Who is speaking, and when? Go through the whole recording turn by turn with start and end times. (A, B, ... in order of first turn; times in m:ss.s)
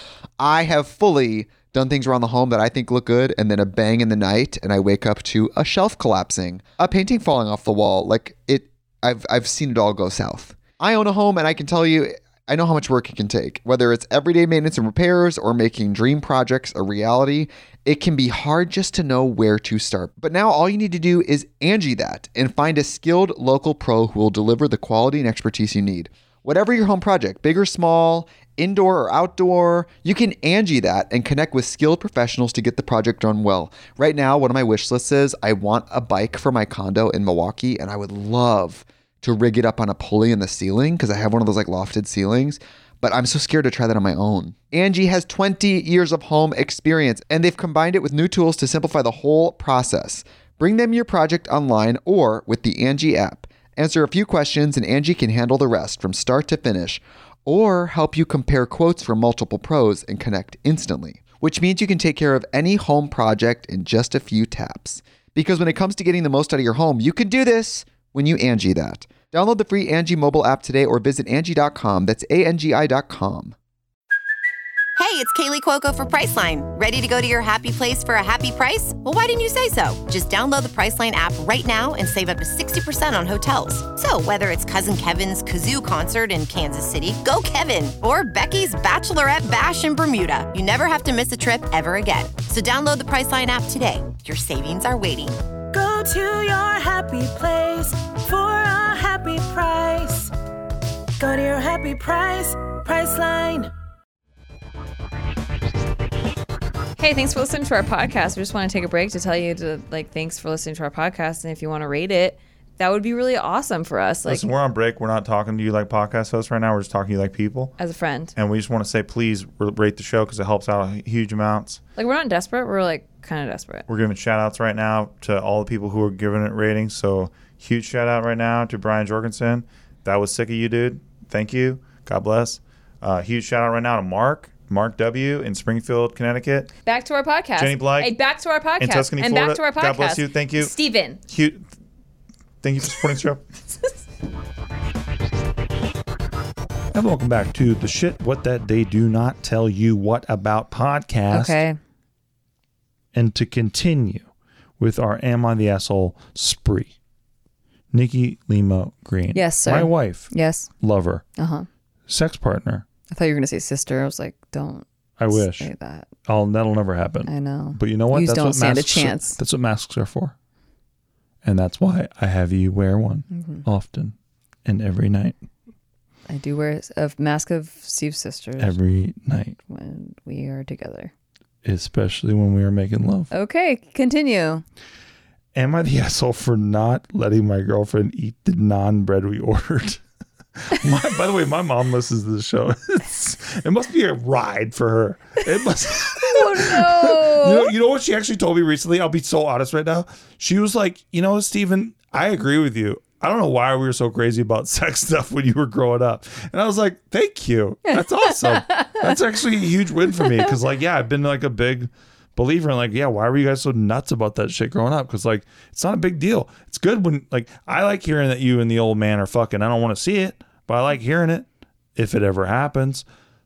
0:00.4-1:13.6 A
1:15.0-1:35.4 B
1:35.7-1:40.3 C
1:41.2-1:43.7 C
1:47.0-1:54.5 D
1:54.3-1:57.8 E
1:57.8-1:58.4 D
1:58.4-2:01.8 E
2:02.0-2:03.9 D
2:03.9-2:16.7 E
2:16.8-2:21.2 D
2:17.6-2:18.2 E
2:18.8-2:20.7 E
2:21.3-2:21.6 E
2:22.6-2:23.4 E
2:26.9-2:31.6 E
2:31.3-2:31.8 D
2:33.1-2:34.3 E
2:34.8-2:36.9 E
2:37.9-2:41.2 E
2:39.3-2:40.7 D
2:41.4-2:41.7 D
2:42.1-2:42.9 E
2:43.1-2:46.1 D
2:45.2-2:45.7 E
2:46.3-2:50.4 E
2:47.3-2:49.4 D
2:51.4-2:55.4 E
2:53.3-2:53.6 D
2:56.3-2:58.8 D
2:58.6-2:59.6 E
2:59.7-3:01.1 D
3:01.6-3:03.3 E
3:03.3-3:04.6 D
3:05.5-3:10.0 E
3:10.6-3:43.0 E
3:16.2-3:17.7 D
3:27.9-3:29.1 D